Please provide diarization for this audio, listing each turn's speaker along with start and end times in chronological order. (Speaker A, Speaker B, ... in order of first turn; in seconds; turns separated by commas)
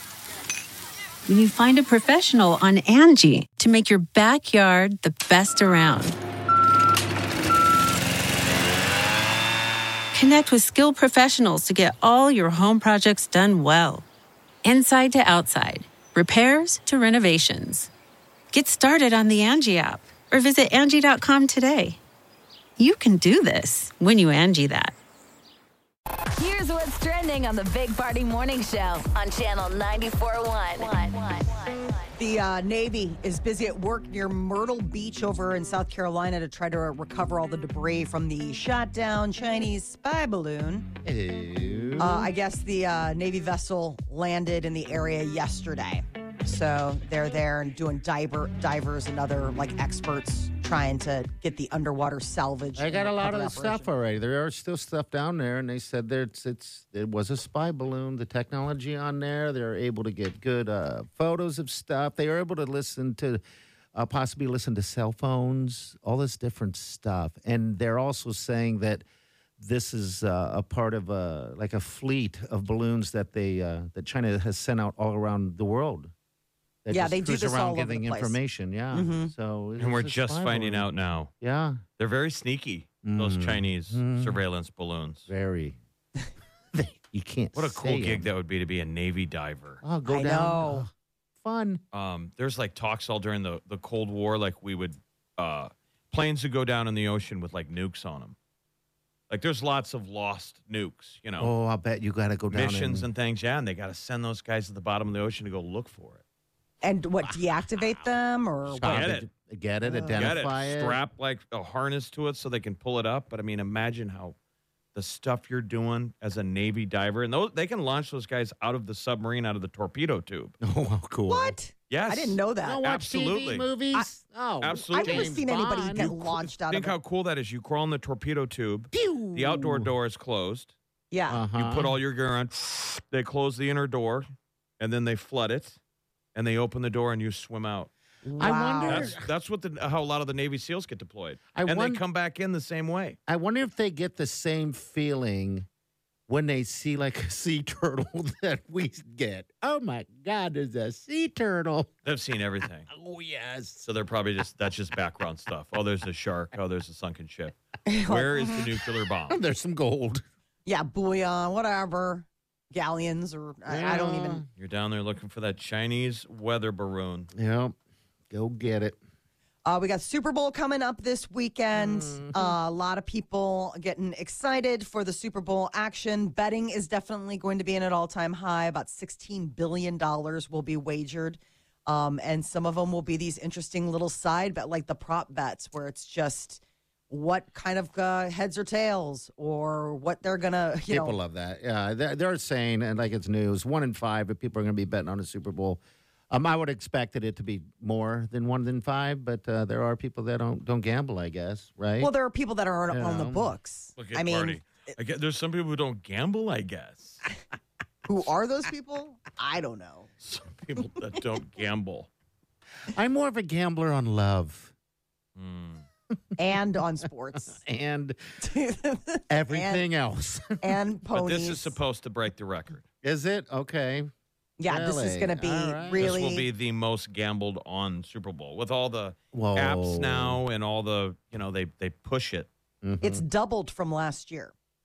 Speaker A: 1.2-6.2, Speaker A: 10.1-14.1, Speaker A: 14.6-17.9, Speaker A: 18.5-22.0, Speaker A: 22.8-24.9, Speaker B: 26.4-32.0, Speaker C: 32.1-40.9, Speaker D: 41.0-42.3, Speaker C: 42.0-53.9, Speaker D: 52.8-63.4, Speaker D: 63.9-69.0, Speaker D: 69.6-76.1, Speaker D: 76.8-80.9, Speaker C: 76.9-78.4, Speaker C: 78.9-79.3, Speaker E: 79.8-81.3, Speaker D: 81.4-81.8, Speaker E: 82.0-85.2, Speaker D: 83.0-84.4, Speaker D: 85.3-85.8, Speaker D: 86.7-88.3, Speaker E: 87.5-89.8, Speaker D: 89.8-90.9, Speaker C: 90.0-90.9, Speaker D: 91.4-91.8, Speaker E: 91.9-98.3, Speaker E: 99.3-101.5, Speaker D: 101.4-103.1, Speaker E: 102.5-106.2, Speaker C: 106.8-109.1, Speaker D: 108.7-111.0, Speaker E: 108.8-109.3, Speaker C: 109.8-110.3, Speaker E: 110.1-114.3, Speaker E: 114.9-120.5, Speaker D: 120.6-121.5, Speaker C: 121.3-122.8, Speaker E: 121.9-123.7, Speaker D: 122.6-126.4, Speaker E: 124.6-125.3, Speaker C: 124.9-126.9, Speaker E: 126.7-130.7, Speaker D: 128.9-129.9, Speaker C: 131.1-131.4, Speaker D: 131.3-131.9, Speaker E: 131.5-134.3, Speaker E: 134.8-135.8, Speaker E: 136.3-137.9, Speaker C: 138.2-139.1, Speaker D: 138.4-139.2, Speaker E: 138.8-143.2, Speaker D: 141.5-142.0, Speaker D: 143.3-145.7, Speaker D: 146.3-151.9, Speaker E: 152.1-152.9, Speaker D: 152.9-153.8, Speaker E: 153.8-159.4, Speaker C: 157.8-158.6, Speaker D: 159.3-160.2, Speaker C: 160.7-164.4, Speaker D: 163.7-164.5, Speaker E: 164.6-167.3, Speaker D: 167.3-167.8, Speaker D: 168.3-169.0, Speaker C: 169.6-191.2, Speaker D: 171.7-172.5, Speaker D: 190.9-202.1, Speaker C: 202.0-204.6, Speaker D: 202.9-203.5, Speaker E: 204.0-207.2, Speaker C: 208.0-210.1, Speaker E: 210.2-212.1, Speaker D: 212.9-214.7, Speaker E: 215.3-215.9, Speaker C: 216.4-217.6, Speaker D: 217.6-218.2, Speaker C: 218.4-219.8, Speaker D: 219.3-220.8, Speaker C: 220.6-221.8, Speaker E: 221.1-222.8, Speaker D: 223.0-224.1, Speaker C: 224.6-226.4, Speaker D: 224.7-226.2, Speaker E: 226.0-232.5, Speaker D: 229.3-230.4, Speaker D: 232.8-233.2, Speaker C: 233.0-234.5